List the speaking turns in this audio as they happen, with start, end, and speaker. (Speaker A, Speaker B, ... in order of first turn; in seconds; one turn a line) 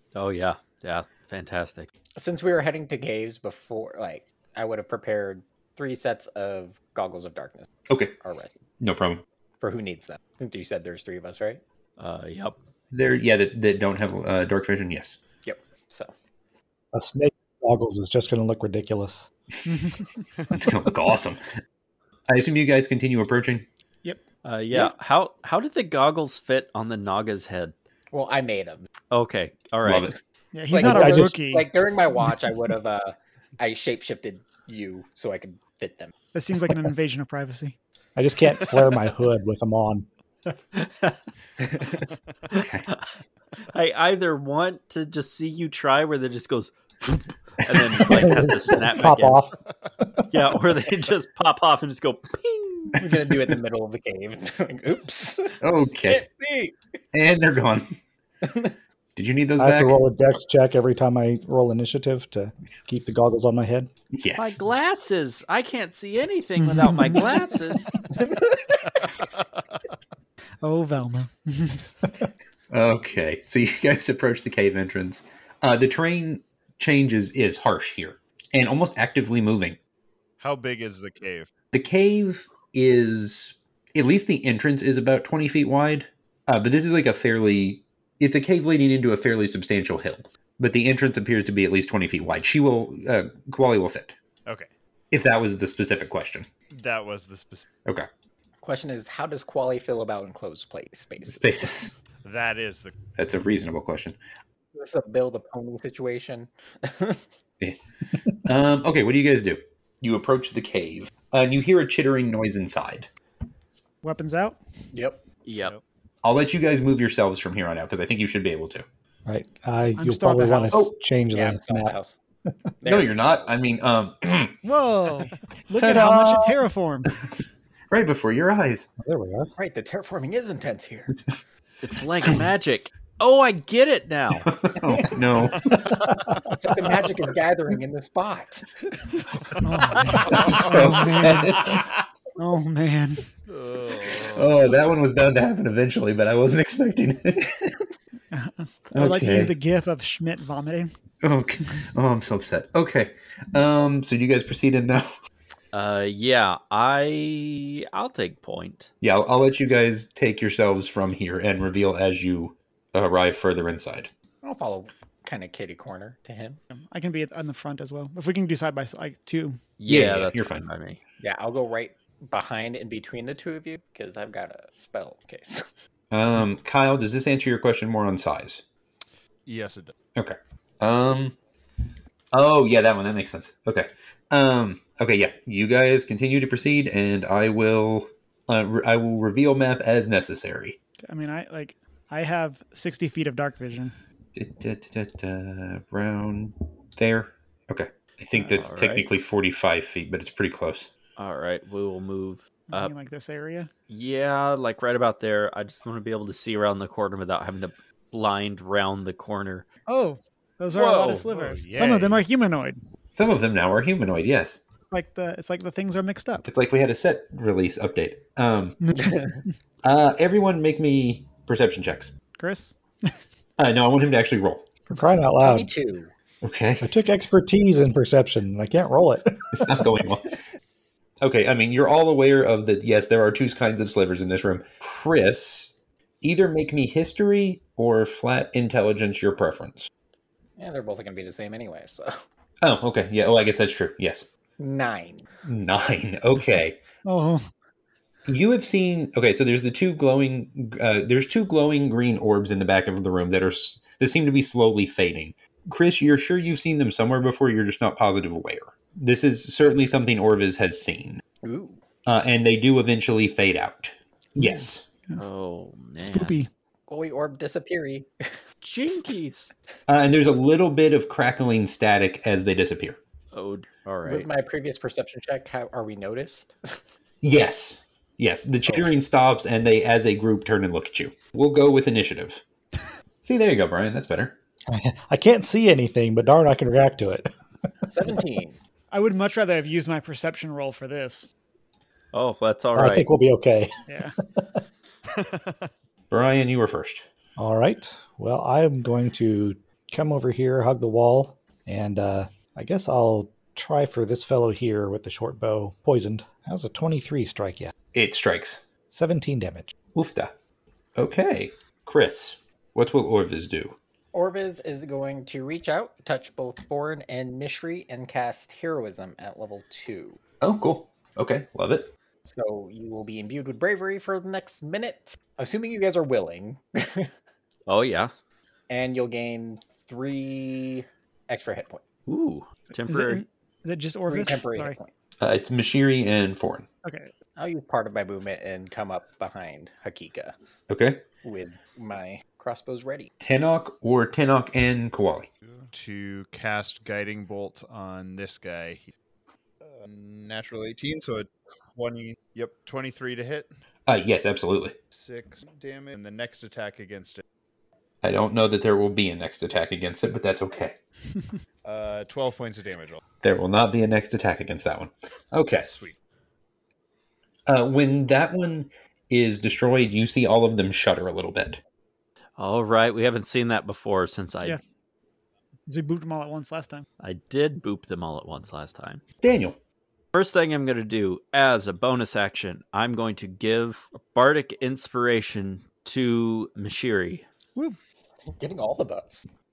Speaker A: 0.1-1.9
Speaker B: 2.1-7.7
Speaker C: 7.9-8.1
Speaker B: 8.2-8.6
Speaker C: 8.8-9.2
Speaker B: 9.6-11.6
Speaker A: 12.0-12.6
Speaker C: 12.9-15.2
Speaker B: 15.4-16.1
Speaker D: 16.9-19.3
Speaker E: 19.8-20.0
Speaker C: 20.5-21.4
Speaker C: 22.3-23.6
Speaker A: 24.4-27.7
Speaker B: 28.1-28.9
Speaker A: 29.1-30.1
Speaker C: 29.8-30.1
Speaker E: 30.5-31.7
Speaker B: 30.7-36.1
Speaker D: 30.8-31.4
Speaker E: 36.3-37.8
Speaker D: 38.1-40.1
Speaker A: 40.7-41.1
Speaker C: 42.5-42.9
Speaker A: 42.5-43.0
Speaker A: 43.7-49.4
Speaker D: 48.0-49.6
Speaker A: 50.3-53.0
Speaker B: 53.0-56.7
Speaker C: 55.6-56.2
Speaker C: 57.1-57.9
Speaker B: 58.4-58.7
Speaker C: 59.1-60.0
Speaker D: 59.6-63.9
Speaker C: 64.1-64.6
Speaker A: 64.3-67.9
Speaker E: 66.6-67.7
Speaker B: 68.2-68.7
Speaker E: 70.6-71.8
Speaker C: 72.7-79.8
Speaker F: 80.4-81.5
Speaker C: 81.7-94.2
Speaker C: 95.1-96.5
Speaker F: 96.7-97.7
Speaker B: 98.6-101.7
Speaker C: 101.2-101.9
Speaker F: 102.2-103.0
Speaker C: 103.2-104.2
Speaker B: 104.7-107.2
Speaker C: 108.4-113.1
Speaker E: 114.0-114.6
Speaker B: 114.9-115.2
Speaker A: 115.4-115.7
Speaker C: 116.2-118.8
Speaker D: 119.2-121.9
Speaker E: 120.0-120.8
Speaker B: 121.3-122.2
Speaker B: 122.8-123.5
Speaker C: 122.8-124.6
Speaker E: 124.6-127.1
Speaker C: 125.8-126.6
Speaker C: 127.9-128.9
Speaker D: 129.0-129.5
Speaker B: 129.6-131.2
Speaker A: 131.8-134.5
Speaker C: 134.4-135.9
Speaker B: 136.5-138.8
Speaker E: 139.6-141.8
Speaker C: 140.3-141.8
Speaker E: 142.4-143.2
Speaker F: 143.5-144.6
Speaker C: 144.2-147.8
Speaker E: 148.3-150.9
Speaker C: 148.9-149.5
Speaker C: 151.2-155.2
Speaker A: 155.7-158.9
Speaker C: 159.0-164.1
Speaker B: 164.4-166.6
Speaker E: 166.7-169.7
Speaker A: 169.8-171.0
Speaker C: 169.9-170.6
Speaker B: 171.2-175.7
Speaker C: 176.1-178.6
Speaker F: 179.4-179.9
Speaker C: 180.2-181.4
Speaker C: 182.3-190.8
Speaker E: 191.1-193.9
Speaker C: 194.3-200.9
Speaker A: 198.4-199.1
Speaker A: 201.2-202.9
Speaker E: 202.7-203.7
Speaker A: 203.9-209.7
Speaker E: 209.9-212.8
Speaker A: 210.7-211.2
Speaker F: 211.2-212.2
Speaker C: 213.1-214.6
Speaker E: 214.9-216.4
Speaker C: 216.4-218.8
Speaker E: 218.8-219.4
Speaker C: 219.8-222.1
Speaker E: 222.4-223.1
Speaker C: 223.6-224.7
Speaker D: 224.9-225.7
Speaker B: 225.4-226.1
Speaker C: 226.4-226.9
Speaker D: 226.8-229.9
Speaker C: 229.6-230.4
Speaker C: 231.2-239.9
Speaker B: 240.6-242.2
Speaker C: 242.6-244.3
Speaker B: 244.6-245.3
Speaker C: 245.4-246.8
Speaker E: 247.0-247.5
Speaker C: 248.3-261.2
Speaker B: 261.4-261.8
Speaker C: 262.1-264.8
Speaker E: 264.4-265.2
Speaker A: 265.2-266.3
Speaker E: 266.0-266.5
Speaker B: 266.9-268.2
Speaker A: 268.6-269.5
Speaker C: 269.9-273.0
Speaker A: 273.3-274.3
Speaker B: 274.1-276.8
Speaker C: 277.2-282.4
Speaker B: 278.6-278.9
Speaker C: 283.2-284.4
Speaker D: 284.7-287.3
Speaker B: 287.9-288.6
Speaker E: 288.9-291.3
Speaker A: 292.1-293.1
Speaker D: 292.8-293.8
Speaker E: 293.9-294.1
Speaker F: 295.2-295.5
Speaker C: 296.1-297.1
Speaker D: 297.4-307.7
Speaker C: 307.9-308.6
Speaker D: 308.9-309.7
Speaker C: 309.9-310.3
Speaker C: 310.9-313.8
Speaker B: 314.1-320.2
Speaker C: 320.4-321.9
Speaker B: 322.2-327.1
Speaker A: 327.7-328.1
Speaker B: 328.7-331.8
Speaker A: 332.1-333.2
Speaker E: 332.9-334.8
Speaker B: 334.1-334.9
Speaker C: 335.2-336.7
Speaker E: 336.8-337.1
Speaker B: 337.4-340.3
Speaker C: 340.7-341.0
Speaker B: 341.2-343.1
Speaker C: 343.2-345.3
Speaker F: 345.6-348.9
Speaker F: 349.6-353.5
Speaker C: 353.9-354.8
Speaker F: 354.9-357.2
Speaker C: 358.0-360.8
Speaker F: 361.6-363.0
Speaker C: 363.2-365.7
Speaker F: 365.6-366.0
Speaker C: 367.5-371.6
Speaker A: 372.4-374.6
Speaker E: 375.7-376.9
Speaker A: 377.0-379.0
Speaker C: 379.2-379.6
Speaker A: 380.1-387.3
Speaker B: 388.3-389.3